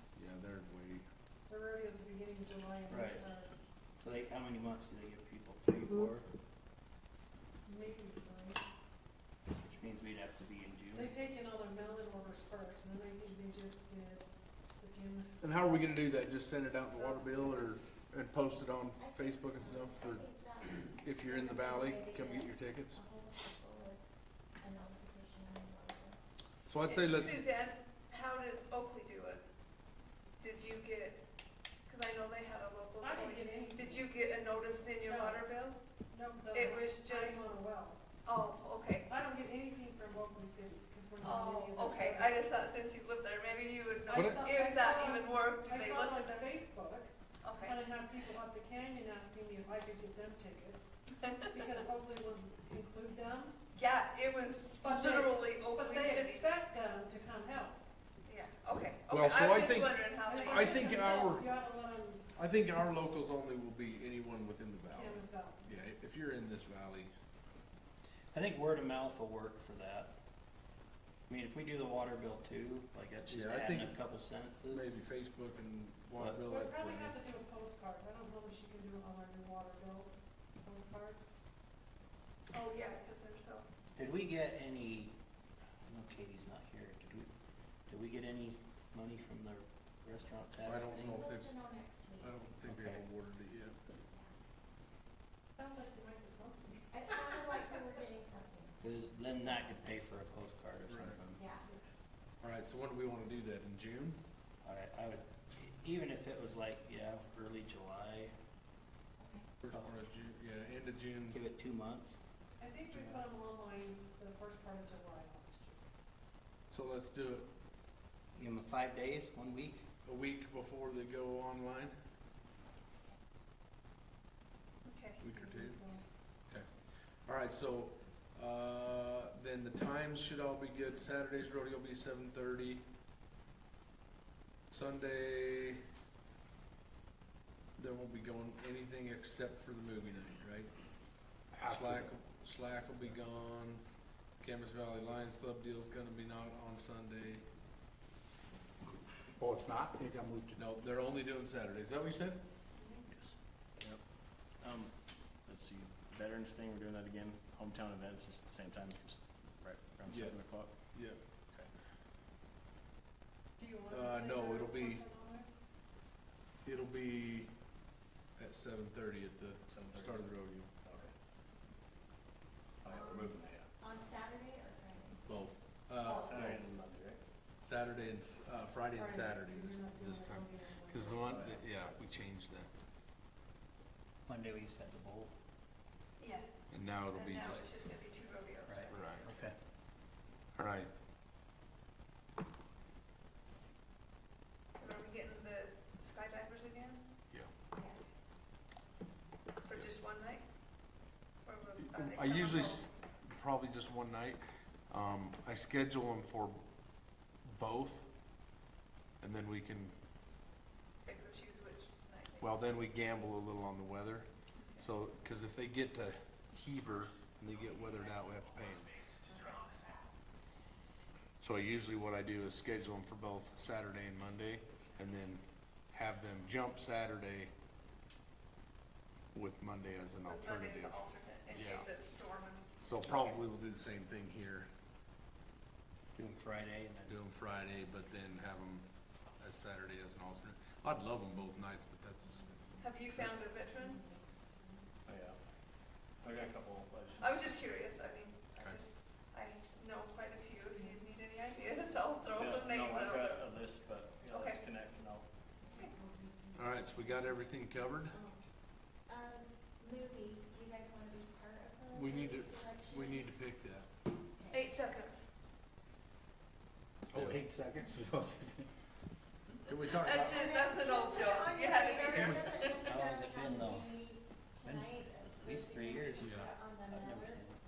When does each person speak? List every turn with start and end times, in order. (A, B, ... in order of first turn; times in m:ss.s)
0:00.1-0:01.1 A
0:01.5-0:03.5 B
0:02.9-0:03.3 C
0:04.0-0:06.2 C
0:07.6-0:08.6 B
0:09.5-0:11.1 C
0:10.9-0:14.3 B
0:14.8-0:15.4 B
0:15.4-0:20.3 A
0:17.0-0:18.0 B
0:19.0-0:26.2 D
0:20.9-0:23.0 A
0:26.6-0:27.4 A
0:26.8-0:29.4 E
0:30.4-0:31.2 E
0:31.9-0:35.8 E
0:33.0-0:34.1 B
0:35.0-0:35.4 B
0:36.1-0:38.0 B
0:36.5-0:37.4 E
0:38.2-0:39.1 E
0:39.1-0:42.4 B
0:41.2-0:46.5 E
0:44.1-0:50.9 B
0:44.1-0:44.5 A
0:47.4-0:47.8 E
0:51.2-0:51.5 E
0:51.5-0:53.6 B
0:53.7-0:56.5 E
0:54.8-0:57.8 B
0:58.3-1:01.0 E
0:59.1-1:01.4 A
1:00.2-1:02.2 B
1:02.3-1:07.1 A
1:04.9-1:05.6 B
1:08.3-1:10.1 C
1:11.3-1:14.9 C
1:13.3-1:14.0 A
1:14.7-1:17.2 A
1:16.5-1:21.3 B
1:22.5-1:23.7 E
1:24.0-1:25.2 C
1:25.9-1:27.3 C
1:27.9-1:31.3 C
1:30.6-1:31.6 A
1:30.8-1:32.4 D
1:32.2-1:33.8 A
1:32.7-1:33.0 C
1:34.1-1:34.3 D
1:35.6-1:36.9 B
1:36.9-1:38.8 D
1:38.8-1:41.4 C
1:40.9-1:41.2 A
1:41.4-1:41.8 D
1:42.4-1:44.2 A
1:44.6-1:48.3 C
1:49.2-1:49.5 D
1:49.6-1:51.4 A
1:51.3-1:52.2 C
1:52.6-1:55.9 B
1:56.7-1:57.5 A
1:58.3-1:59.8 C
2:00.0-2:02.0 A
2:04.8-2:05.2 E
2:05.2-2:05.8 A
2:05.3-2:06.0 B
2:07.2-2:12.8 A
2:14.7-2:15.8 A
2:17.8-2:20.7 A
2:21.5-2:22.1 F
2:21.7-2:23.8 A
2:24.4-2:27.4 A
2:29.4-2:30.6 F
2:30.5-2:32.4 A
2:32.8-2:33.1 B
2:33.1-2:34.0 G
2:34.6-2:40.9 G
2:40.1-2:40.4 A
2:40.9-2:41.2 A
2:43.6-2:45.5 B
2:43.9-2:45.0 A
2:46.6-2:47.5 A
2:48.4-2:50.7 A
2:49.7-2:51.1 G
2:52.8-2:53.7 G
2:52.9-2:55.3 D
2:55.2-2:56.6 A
2:56.1-2:57.2 G
2:57.6-3:02.7 A
2:58.9-3:01.4 B
3:01.2-3:02.0 G
3:04.3-3:05.3 C
3:06.2-3:06.5 E
3:06.7-3:07.7 A
3:07.1-3:09.3 E
3:08.7-3:09.5 C
3:08.9-3:09.2 A
3:10.6-3:10.9 A
3:14.8-3:17.0 E
3:17.7-3:18.0 D
3:19.6-3:20.4 E
3:21.4-3:22.9 E
3:21.8-3:26.6 A
3:27.5-3:28.1 A
3:29.2-3:29.9 A
3:31.0-3:32.5 E
3:32.4-3:39.0 A
3:34.6-3:34.9 E
3:39.2-3:39.8 E
3:41.4-3:47.5 A
3:49.3-3:51.0 A
3:50.2-3:52.7 E
3:51.5-3:51.9 A
3:52.8-3:54.7 A
3:56.2-3:57.2 C
3:57.1-4:03.4 A
4:02.8-4:04.0 E
4:04.0-4:04.3 B
4:05.1-4:05.4 G
4:06.2-4:07.5 G
4:07.2-4:13.4 E
4:12.3-4:15.3 G
4:14.3-4:14.6 E
4:15.8-4:16.4 D
4:16.6-4:18.2 A
4:18.1-4:18.4 D
4:19.0-4:23.3 D
4:21.9-4:23.9 A
4:24.3-4:24.7 D
4:24.5-4:25.2 E
4:27.0-4:28.7 F
4:27.1-4:27.4 A
4:29.7-4:30.3 A
4:29.9-4:32.9 E
4:30.2-4:37.4 D
4:32.8-4:34.0 C
4:34.6-4:36.3 C
4:36.2-4:36.5 A
4:36.9-4:37.6 C